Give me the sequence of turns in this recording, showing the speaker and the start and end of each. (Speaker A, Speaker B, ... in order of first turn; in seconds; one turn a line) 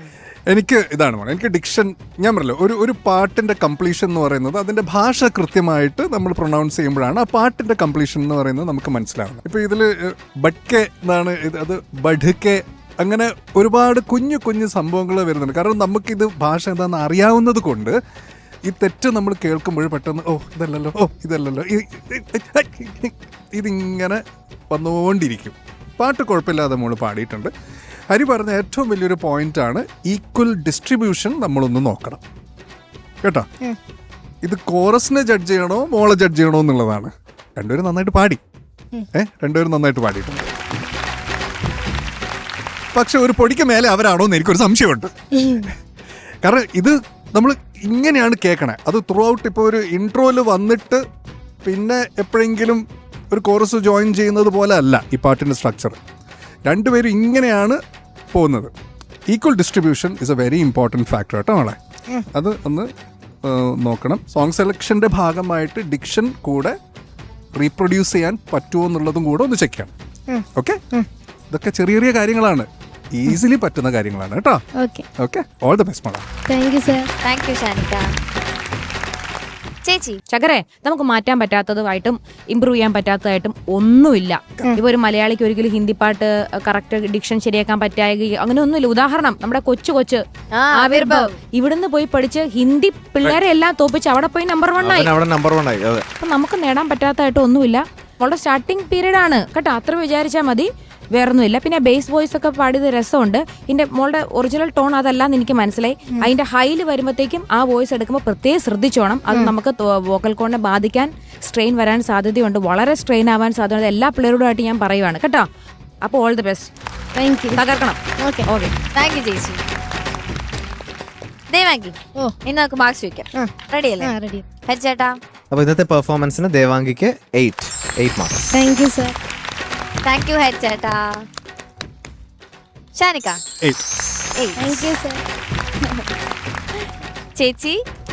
Speaker A: 0.5-17.9
Speaker A: 18.6-27.5
Speaker A: 28.1-32.2
Speaker A: 34.4-38.4
Speaker A: 39.1-40.5
Speaker A: 42.9-45.7
Speaker A: 46.4-51.0
Speaker A: 51.6-56.0
Speaker A: 56.6-57.8
Speaker A: 58.3-58.7
Speaker A: 59.3-61.8
Speaker A: 62.3-62.9
Speaker A: 63.4-66.7
Speaker A: 67.5-69.9
Speaker B: 70.3-71.1
Speaker A: 70.5-70.8
Speaker A: 71.5-74.6
Speaker B: 74.8-75.0
Speaker A: 75.2-76.2
Speaker B: 76.5-77.1
Speaker C: 77.2-78.1
Speaker C: 79.8-80.2
Speaker D: 80.3-90.2
Speaker C: 90.5-91.3
Speaker D: 90.8-95.1
Speaker E: 94.8-96.0
Speaker D: 96.2-115.4
Speaker D: 116.0-116.7
Speaker B: 117.2-117.6
Speaker D: 117.5-118.7
Speaker B: 118.2-118.4
Speaker C: 118.9-119.6
Speaker C: 121.5-125.2
Speaker B: 123.3-124.5
Speaker E: 125.5-128.4
Speaker B: 128.5-129.1
Speaker C: 130.0-131.2
Speaker C: 132.9-133.4
Speaker C: 134.3-134.9
Speaker B: 134.6-135.2
Speaker C: 137.3-137.8